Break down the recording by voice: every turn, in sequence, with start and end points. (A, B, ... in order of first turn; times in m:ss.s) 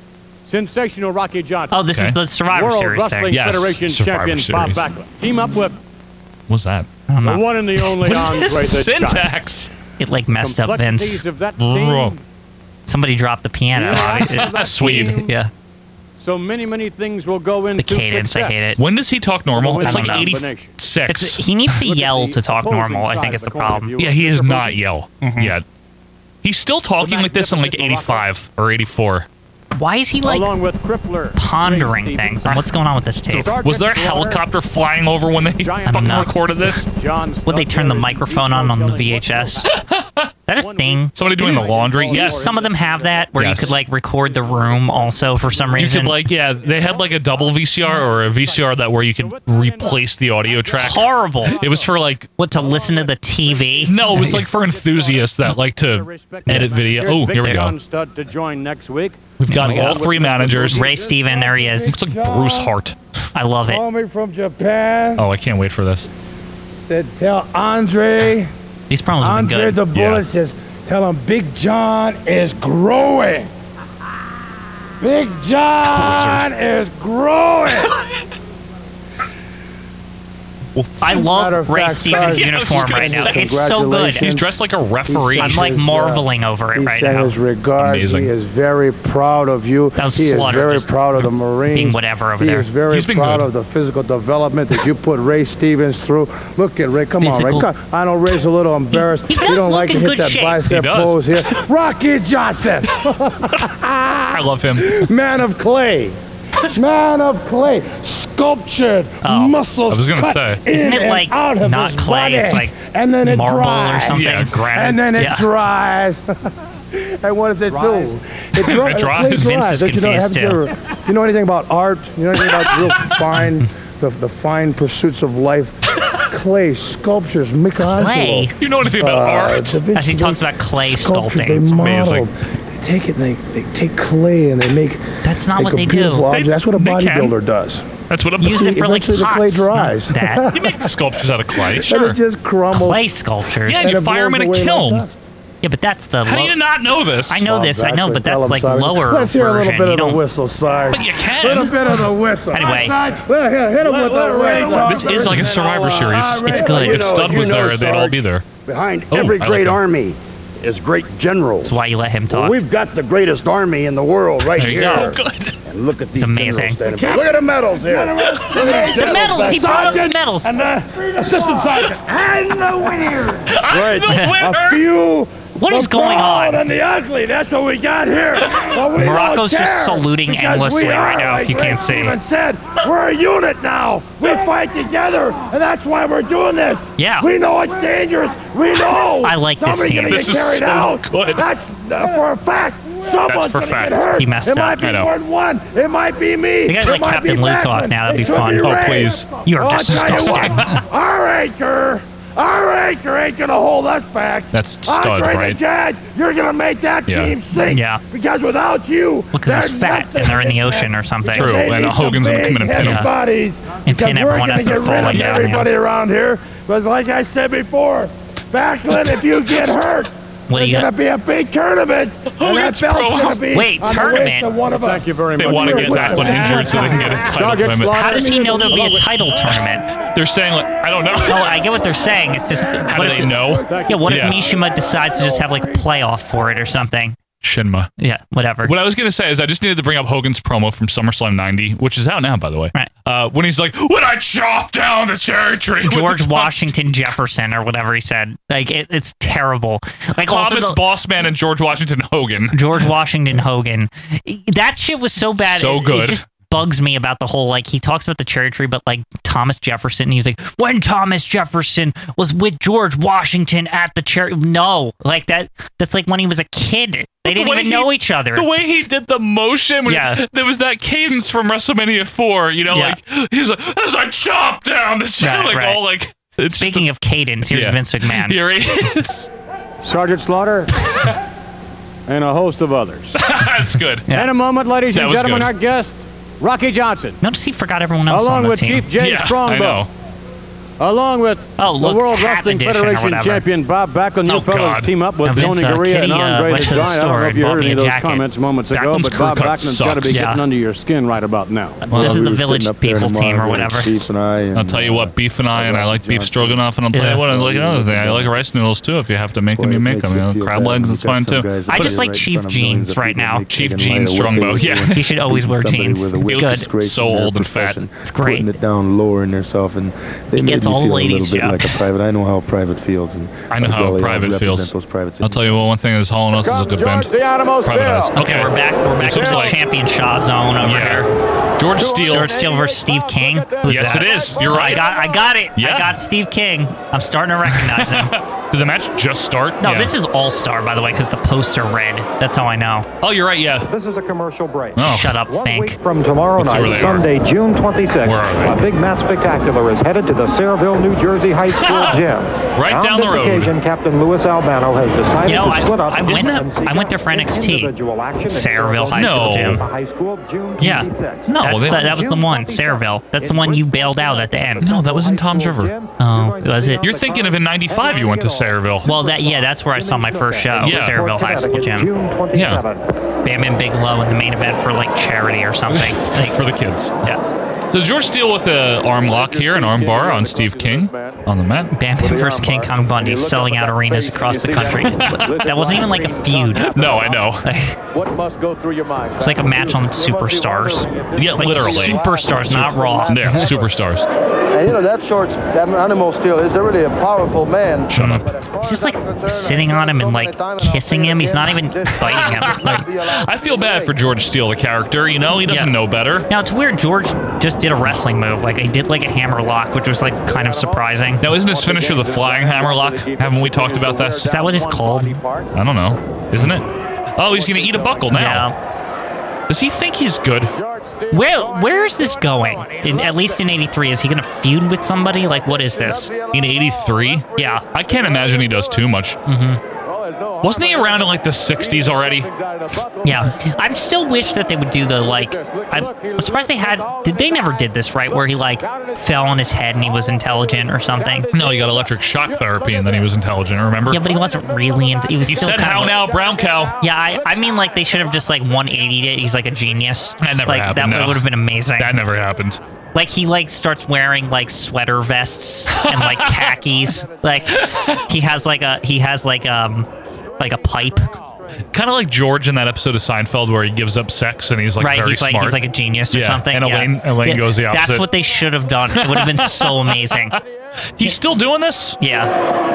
0:00.4-0:01.8 A
0:01.7-0:03.4 B
0:02.5-0:05.8 A
0:03.3-0:04.8 C
0:06.5-0:06.9 C
0:07.1-0:07.4 B
0:07.2-0:09.4 A
0:08.0-0:09.7 C
0:10.0-0:11.2 B
0:10.4-0:12.2 A
0:11.6-0:12.2 C
0:12.9-0:15.5 B
0:13.8-0:15.3 A
0:13.8-0:15.2 C
0:16.2-0:18.7 A
0:17.8-0:18.8 B
0:18.8-0:21.4 C
0:19.5-0:20.7 A
0:19.8-0:20.3 B
0:21.1-0:23.9 B
0:21.8-0:24.8 A
0:24.0-0:25.6 C
0:25.2-0:25.5 B
0:26.4-0:29.3 C
0:27.0-0:28.2 A
0:29.7-0:30.5 B
0:30.2-0:32.6 A
0:31.4-0:33.5 B
0:33.3-0:36.9 C
0:33.3-0:34.4 A
0:35.6-0:39.8 A
0:35.8-0:36.3 B
0:37.4-0:39.7 B
0:39.7-0:40.3 C
0:40.5-0:46.2 B
0:40.6-0:51.9 A
0:41.1-0:42.4 C
0:43.4-0:43.8 C
0:45.8-0:52.3 C
0:50.8-0:51.6 B
0:52.4-0:54.4 B
0:52.6-0:52.9 A
0:53.7-1:01.0 A
0:53.8-0:57.7 C
0:59.4-1:00.8 C
0:59.5-1:00.0 B
1:00.6-1:02.7 D
1:00.7-1:02.0 B
1:01.9-1:03.0 C
1:03.3-1:03.8 B
1:03.6-1:05.2 D
1:05.2-1:06.1 C
1:06.8-1:08.5 D
1:08.9-1:09.8 B
1:09.2-1:13.5 D
1:09.9-1:10.2 C
1:15.0-1:17.9 D
1:15.8-1:16.5 C
1:17.8-1:18.2 C
1:21.0-1:24.3 B
1:21.0-1:24.5 D
1:22.2-1:23.5 C
1:24.2-1:25.7 C
1:25.1-1:46.2 D
1:25.4-1:27.4 B
1:27.8-1:28.3 C
1:30.0-1:32.7 B
1:32.9-1:33.5 C
1:37.2-1:37.7 B
1:38.9-1:40.7 B
1:40.6-1:41.6 C
1:44.3-1:45.0 C
1:46.7-1:56.2 D
1:49.2-1:49.6 B
1:49.9-1:50.6 C
1:50.7-1:55.5 B
1:54.1-1:55.0 C
1:57.0-2:05.7 D
1:57.8-1:58.1 A
1:58.6-1:59.6 C
1:59.2-2:00.6 B
2:02.6-2:03.2 C
2:06.3-2:15.0 D
2:07.8-2:08.5 B
2:08.6-2:09.8 C
2:09.9-2:11.8 B
2:11.7-2:12.3 C
2:15.2-2:16.3 B
2:15.5-2:17.8 D
2:16.3-2:17.3 C
2:18.1-2:18.7 C
2:18.4-2:20.6 B
2:18.4-2:20.9 D
2:20.5-2:22.2 C
2:21.6-2:23.0 D
2:22.7-2:23.9 B
2:23.6-2:25.0 C
2:23.8-2:25.2 D
2:25.6-2:26.6 B
2:26.2-2:27.4 C
2:27.3-2:30.2 B
2:27.4-2:37.2 D
2:30.9-2:32.1 C
2:32.5-2:33.0 B
2:33.8-2:41.7 E
2:34.8-2:38.4 C
2:36.4-2:37.1 B
2:39.1-2:39.8 C
2:41.6-2:42.6 B
2:42.3-2:49.4 E
2:44.6-2:45.6 C
2:44.6-2:45.1 B
2:46.2-2:46.8 B
2:46.8-3:47.4 D
2:48.8-2:50.6 B
2:53.4-2:54.9 C
2:53.7-2:54.0 A
2:54.1-2:54.4 B
2:55.6-2:56.6 B
2:58.9-3:02.2 B
3:07.0-3:07.3 B
3:09.2-3:10.3 B
3:10.1-3:11.4 C
3:13.2-3:14.1 C
3:14.1-3:14.8 B
3:14.8-3:15.1 C
3:16.6-3:18.8 B
3:18.6-3:19.2 C
3:19.4-3:20.8 B
3:19.9-3:20.8 C
3:24.5-3:25.6 C
3:27.1-3:27.3 C
3:27.6-3:28.0 B
3:29.3-3:31.7 B
3:31.3-3:33.1 C
3:32.8-3:33.1 B
3:33.8-3:35.7 B
3:35.1-3:35.5 C
3:39.0-3:39.7 C
3:40.5-3:40.9 B
3:42.3-3:43.4 C
3:43.5-3:44.6 B
3:44.7-3:49.1 A
3:45.4-3:47.9 C
3:47.9-3:49.9 B
3:48.1-3:48.8 D
3:50.1-3:51.8 C
3:51.2-3:57.2 B
3:51.9-3:54.0 D
3:52.9-3:54.4 C
3:53.6-3:54.2 A
3:57.4-3:57.9 C
3:58.0-3:58.7 B
3:58.6-4:06.7 C
4:05.8-4:10.8 B
4:10.2-4:12.6 C
4:12.5-4:28.5 B
4:15.4-4:16.2 C
4:27.2-4:36.9 C
4:29.8-4:30.2 B
4:32.7-4:33.0 B
4:35.2-4:35.8 B
4:36.5-4:38.4 B
4:37.4-4:39.3 C
4:39.8-4:40.7 A
4:42.1-4:43.2 A
4:43.1-4:44.1 C
4:44.1-4:47.2 A
4:44.9-4:45.5 C
4:47.2-4:48.9 B
4:48.1-4:49.9 A
4:49.0-4:49.9 C
4:50.8-5:01.8 A
4:51.6-4:53.4 B
4:54.2-4:55.5 C
4:55.2-4:58.2 B
4:58.7-5:00.2 C
5:00.1-5:00.4 B
5:01.8-5:08.6 F
5:01.9-5:02.3 C
5:01.9-5:04.0 B
5:04.5-5:11.9 C
5:06.9-5:07.2 B
5:09.6-5:25.6 F
5:11.7-5:13.4 B
5:13.5-5:15.1 C
5:14.9-5:16.7 B
5:16.2-5:17.8 C
5:18.0-5:18.5 B
5:20.4-5:21.8 B
5:23.5-5:27.1 C
5:26.5-5:28.1 A
5:27.6-5:29.6 C
5:28.1-5:31.1 B
5:29.1-5:29.5 A
5:30.6-5:32.3 C
5:31.9-5:38.1 B
5:32.1-5:32.8 A
5:33.6-5:34.0 A
5:33.6-5:34.9 C
5:35.6-5:36.0 C
5:37.5-5:39.9 C
5:39.6-5:42.9 B
5:43.0-5:43.7 C
5:43.7-6:12.8 G
5:44.8-5:45.1 C
5:44.8-5:45.8 B
5:46.4-5:47.1 C
5:48.0-5:48.6 C
5:51.5-5:52.0 C
5:52.6-5:53.5 C
5:55.2-5:57.7 B
5:58.3-5:59.6 B
5:58.9-5:59.6 C
6:00.6-6:00.9 B
6:01.3-6:02.0 C
6:01.4-6:04.7 B
6:04.6-6:05.7 C
6:06.0-6:06.9 B
6:06.8-6:08.9 C
6:08.8-6:11.9 B
6:10.6-6:11.0 C
6:12.3-6:12.6 C
6:13.2-6:16.4 B
6:15.7-6:16.9 C
6:17.7-6:21.7 C
6:19.1-6:21.2 A
6:21.7-6:27.8 B
6:22.0-6:27.2 A
6:24.8-6:25.3 C
6:26.6-6:27.5 C
6:27.9-6:33.4 A
6:29.2-6:33.6 B
6:31.1-6:32.0 C
6:33.1-6:34.0 C
6:34.7-6:37.8 E
6:37.9-6:38.3 C
6:37.9-6:42.8 B
6:41.9-6:46.2 C
6:45.4-6:45.7 B
6:46.3-6:51.2 B
6:50.7-6:55.5 A
6:51.2-6:54.3 C
6:54.2-6:55.2 B
6:55.5-6:58.5 C
6:57.6-6:58.0 A
6:58.1-6:58.5 B
6:59.5-7:00.5 C
7:00.6-7:01.4 A
7:01.1-7:06.1 B
7:06.3-7:09.2 C
7:07.3-7:07.6 B
7:09.2-7:09.6 B
7:09.8-7:13.3 A
7:10.4-7:12.3 C
7:13.0-7:21.3 B
7:15.9-7:16.8 A
7:21.3-7:24.0 C
7:23.8-7:26.0 B
7:25.2-7:26.8 C
7:26.8-7:32.0 B
7:30.2-7:32.6 C
7:32.9-7:39.9 B
7:35.7-7:36.5 C
7:37.5-7:38.0 C
7:40.4-7:41.1 B
7:41.7-7:45.6 C
7:44.8-7:50.4 B
7:46.1-7:48.1 C
7:48.9-7:50.4 C
7:50.9-7:52.0 C
7:52.0-7:52.3 B